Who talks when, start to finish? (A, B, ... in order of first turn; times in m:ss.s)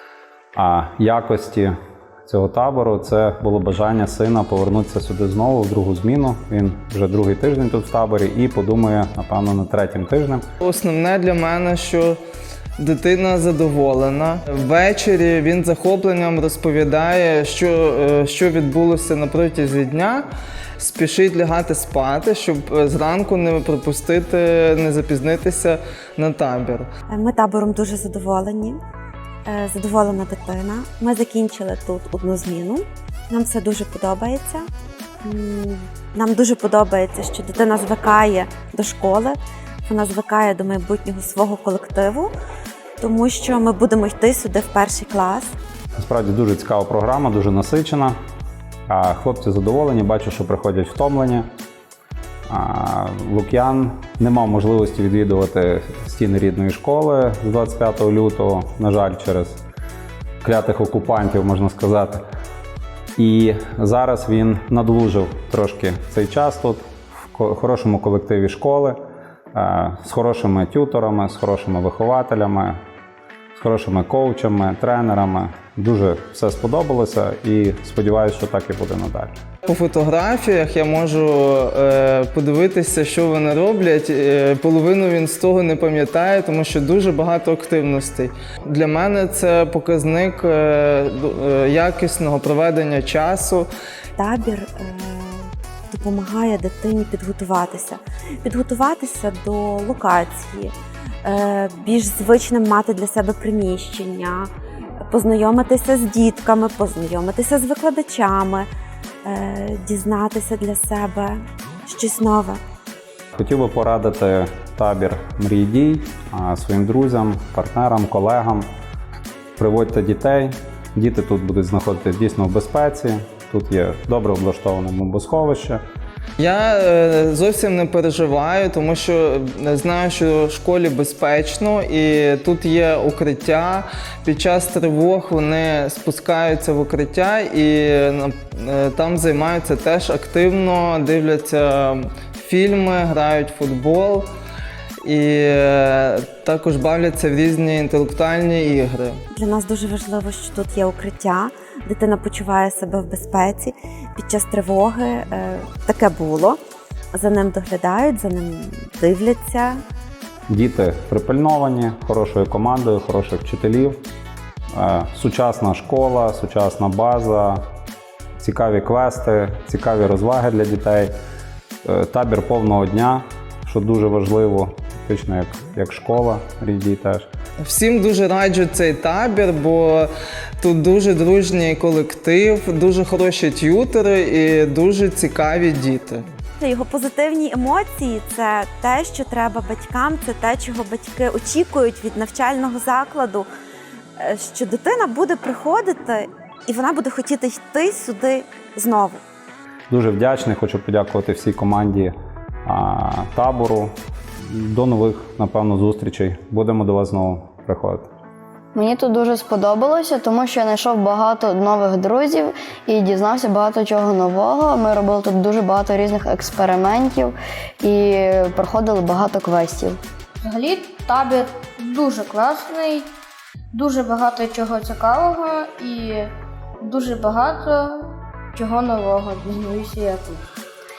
0:00.6-0:01.7 A
0:02.3-0:10.4 A
0:10.6-0:12.2 B
0:12.8-0:20.3 B
0:20.8-0:26.9 B
0:27.1-0:28.8 C
0:29.5-0:34.7 C
0:35.2-0:42.3 C
0:43.0-0:45.6 C
0:46.0-0:48.2 A
0:48.9-0:51.5 A
0:52.5-0:59.6 A
1:00.4-1:02.2 A
1:03.2-1:09.0 A
1:09.5-1:12.8 A
1:13.6-1:19.3 A
1:19.6-1:33.7 B
1:34.2-1:40.7 C
1:41.2-1:44.5 C
1:45.1-1:48.7 C
1:49.2-1:52.6 C
1:53.4-1:58.7 A
1:59.6-2:05.8 A
2:06.4-2:24.3 B
2:25.0-2:29.2 B
2:29.3-2:36.6 C
2:37.1-2:39.8 C
2:40.5-2:44.0 A
2:44.7-2:47.6 A
2:48.4-2:51.1 A
2:51.8-2:57.3 A
2:57.6-3:06.3 B
3:06.6-3:13.5 C
3:14.2-3:19.2 C
3:19.9-3:22.1 A
3:22.6-3:23.9 A
3:24.5-3:28.1 A
3:28.8-3:40.0 D
3:40.4-3:43.1 E
3:43.7-3:50.4 E